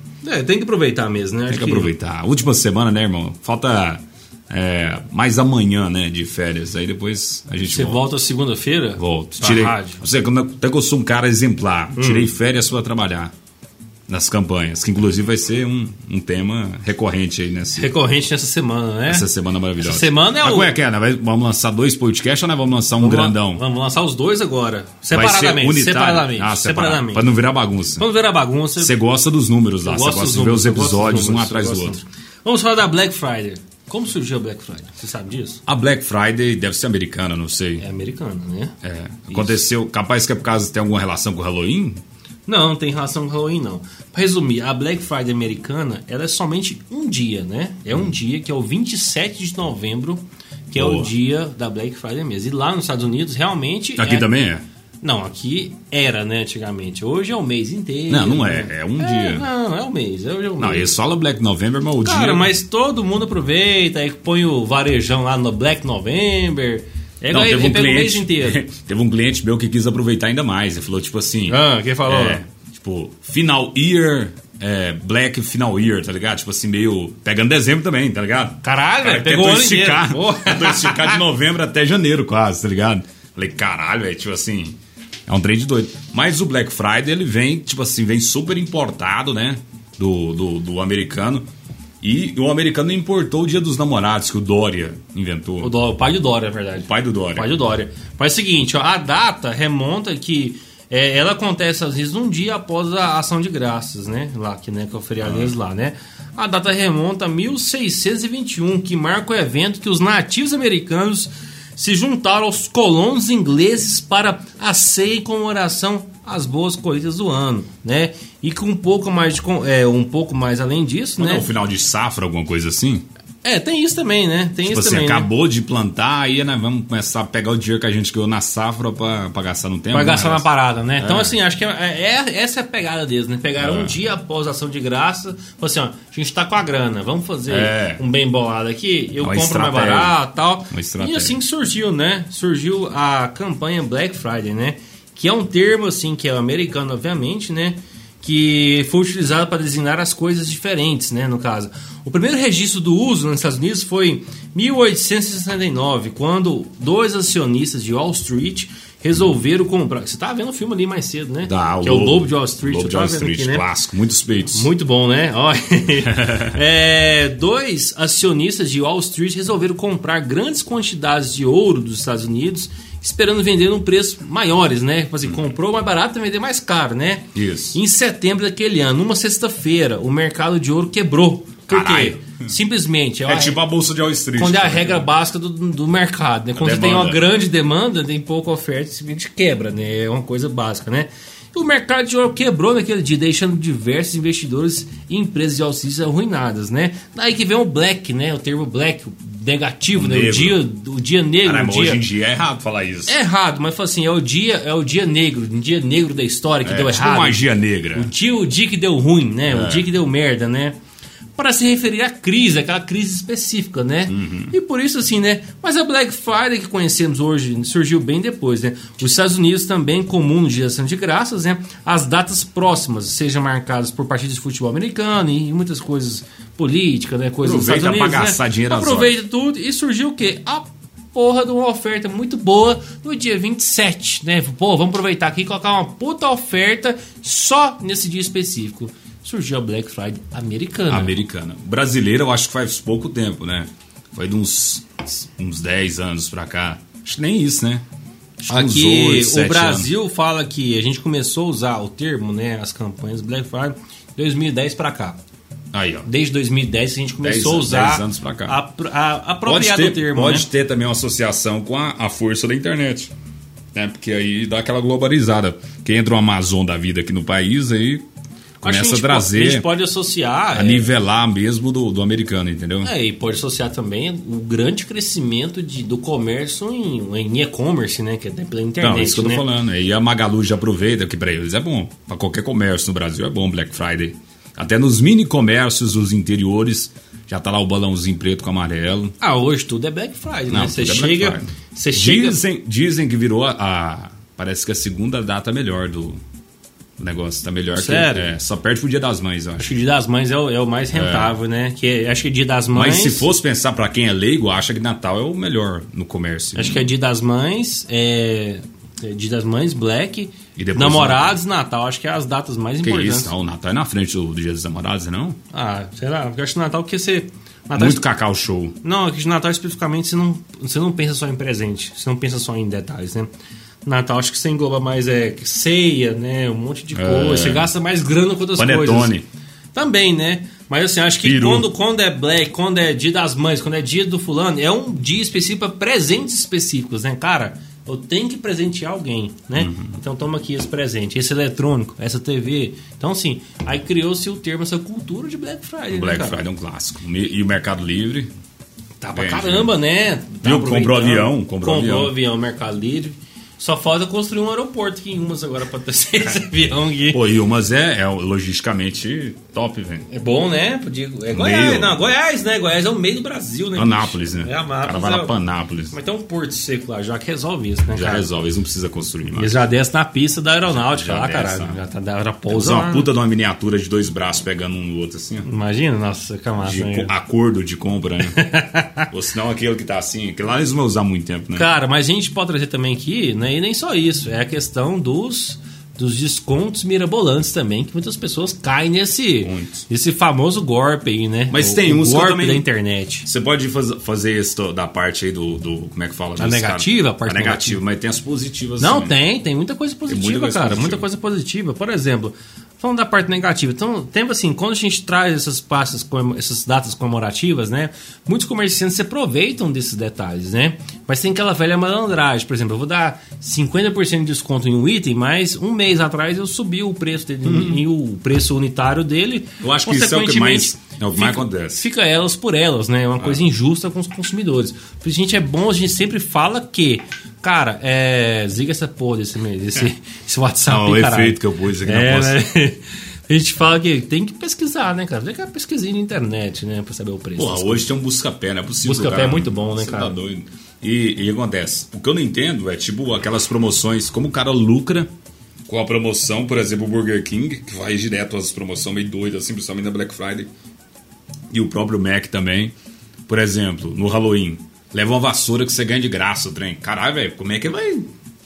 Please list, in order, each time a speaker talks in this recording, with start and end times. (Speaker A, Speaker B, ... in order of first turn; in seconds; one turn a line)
Speaker A: 0.2-1.9
Speaker B: 1.5-8.1
Speaker A: 7.7-10.0
Speaker B: 9.0-13.3
Speaker A: 11.9-12.3
Speaker B: 14.1-17.9
Speaker A: 17.8-19.3
Speaker B: 19.1-23.6
Speaker A: 19.8-20.8
Speaker A: 23.0-27.3
Speaker B: 25.1-28.1
Speaker A: 28.0-28.9
Speaker B: 28.8-32.0
Speaker A: 29.8-35.6
Speaker B: 35.7-37.8
Speaker A: 37.8-38.7
Speaker B: 38.8-42.0
Speaker A: 39.3-39.6
Speaker A: 42.5-54.3
Speaker B: 50.7-51.1
Speaker B: 54.0-54.6
Speaker A: 55.0-60.9
Speaker B: 58.1-59.5
Speaker B: 60.6-62.5
Speaker A: 62.0-68.6
Speaker B: 67.3-91.5
Speaker A: 71.5-72.4
Speaker A: 78.6-81.2
Speaker B: 92.0-95.7
Speaker A: 95.6-121.5
Speaker B: 96.8-97.5
Speaker B: 105.2-105.5
Speaker B: 121.2-123.0
Speaker A: 123.4-125.3
Speaker B: 124.6-130.5
Speaker A: 129.9-163.7
Speaker B: 131.0-131.3
Speaker B: 133.6-134.0
Speaker B: 137.5-138.0
Speaker B: 139.2-140.2
Speaker B: 140.7-141.4
Speaker B: 161.5-164.7
Speaker A: 164.5-183.6
Speaker B: 166.1-166.6
Speaker B: 177.3-177.8
Speaker B: 181.7-182.4
Speaker B: 183.3-185.1
Speaker A: 184.3-202.0
Speaker B: 186.6-187.2
Speaker B: 199.9-200.6
Speaker B: 201.4-203.1
Speaker A: 203.1-207.4
Speaker B: 206.6-208.1
Speaker A: 207.9-210.8
Speaker B: 209.5-209.9
Speaker A: 211.3-241.1
Speaker B: 214.1-214.5
Speaker B: 227.4-229.1
Speaker B: 240.9-247.8
Speaker A: 248.4-255.2
Speaker B: 248.5-249.9
Speaker B: 255.7-256.1
Speaker A: 256.1-260.5
Speaker B: 257.2-258.6
Speaker B: 259.4-263.1
Speaker B: 263.7-268.0
Speaker A: 268.6-270.9
Speaker B: 268.6-269.7
Speaker B: 270.5-272.9
Speaker A: 272.8-279.5
Speaker B: 278.8-289.1
Speaker A: 289.2-292.4
Speaker B: 290.5-296.2
Speaker B: 297.0-299.7
Speaker A: 297.7-298.3
Speaker A: 299.6-303.3
Speaker B: 300.9-301.3
Speaker B: 302.7-306.9
Speaker A: 306.5-313.3
Speaker B: 310.6-311.4
Speaker B: 312.8-315.4
Speaker A: 315.5-318.0
Speaker B: 317.8-318.8
Speaker A: 318.8-323.3
Speaker A: 323.8-329.1
Speaker B: 326.9-327.7
Speaker B: 328.5-329.3
Speaker A: 329.7-346.4
Speaker B: 331.2-331.7
Speaker B: 339.6-339.9
Speaker B: 345.9-348.3
Speaker A: 349.0-357.2
Speaker B: 349.1-349.7
Speaker B: 350.4-352.1
Speaker B: 357.1-360.1
Speaker A: 360.1-365.4
Speaker B: 361.3-362.1
Speaker B: 363.8-365.9
Speaker A: 365.9-368.2
Speaker B: 367.9-369.6
Speaker A: 369.3-373.1
Speaker B: 370.6-371.8
Speaker B: 372.5-375.4
Speaker A: 375.4-377.1
Speaker B: 376.6-378.4
Speaker A: 378.2-379.1
Speaker B: 379.1-381.7
Speaker A: 381.5-393.3
Speaker B: 389.4-389.8
Speaker B: 391.5-392.6
Speaker B: 393.2-399.1
Speaker A: 396.4-397.8
Speaker A: 398.8-437.9
Speaker B: 400.1-401.0
Speaker B: 417.4-417.8
Speaker B: 419.6-421.8
Speaker B: 430.7-432.4
Speaker B: 437.4-445.1
Speaker A: 438.8-440.2
Speaker B: 445.7-450.5
Speaker B: 451.5-452.7
Speaker B: 453.3-458.1